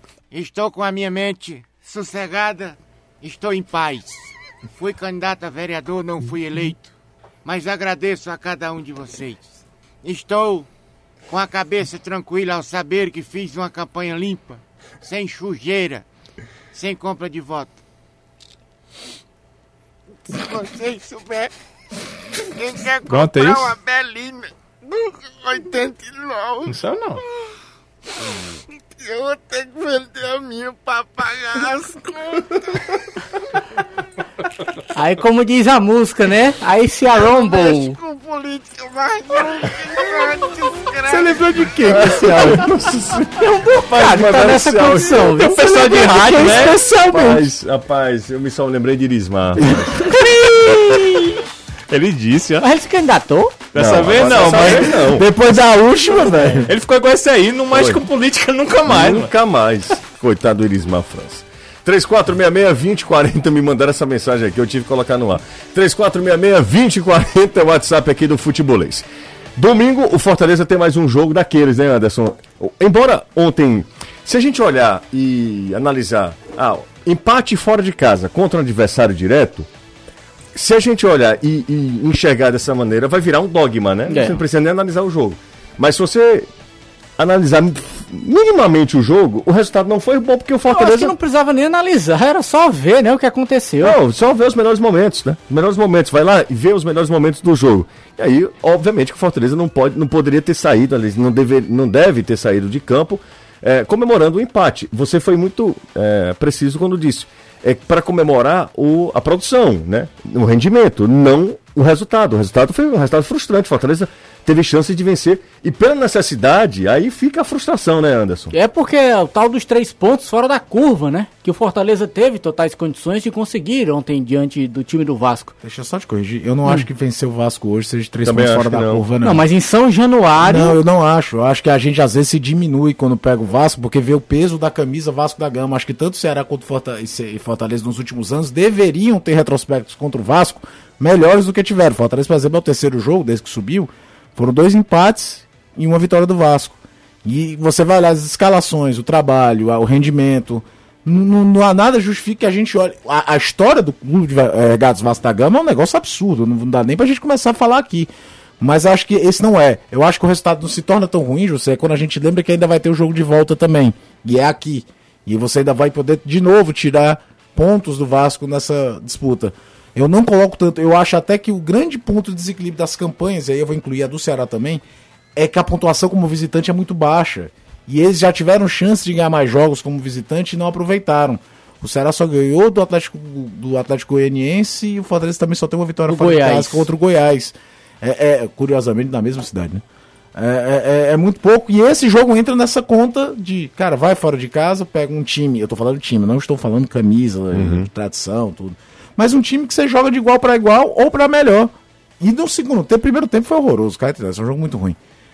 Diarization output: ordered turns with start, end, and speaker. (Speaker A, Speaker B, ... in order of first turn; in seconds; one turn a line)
Speaker A: 0.3-4.2
Speaker A: 4.8-6.9
Speaker A: 7.4-9.5
Speaker A: 10.0-10.7
Speaker A: 11.3-16.0
Speaker A: 16.7-17.7
Speaker A: 20.2-21.5
Speaker A: 22.4-27.5
Speaker B: 23.1-23.8
Speaker B: 26.7-27.2
Speaker A: 28.2-33.0
Speaker C: 34.9-38.0
Speaker A: 37.3-41.5
Speaker B: 41.1-42.7
Speaker D: 41.8-45.4
Speaker C: 43.4-47.4
Speaker B: 43.7-44.3
Speaker B: 45.1-46.9
Speaker D: 47.1-50.1
Speaker C: 49.9-51.4
Speaker B: 50.1-51.4
Speaker B: 51.9-52.7
Speaker C: 52.6-53.6
Speaker B: 53.7-55.2
Speaker D: 53.7-55.3
Speaker E: 55.0-56.7
Speaker B: 56.6-59.3
Speaker D: 57.7-58.0
Speaker D: 58.9-79.7
Speaker D: 80.5-86.5
Speaker C: 84.1-84.4
Speaker D: 87.2-91.1
Speaker C: 90.7-94.0
Speaker D: 93.8-118.5
Speaker C: 118.5-125.5
Speaker E: 125.6-129.4
Speaker D: 128.2-129.1
Speaker C: 129.2-130.8
Speaker E: 130.4-174.8
Speaker E: 175.3-189.8
Speaker C: 186.1-186.9
Speaker E: 190.3-205.0
Speaker D: 197.5-197.9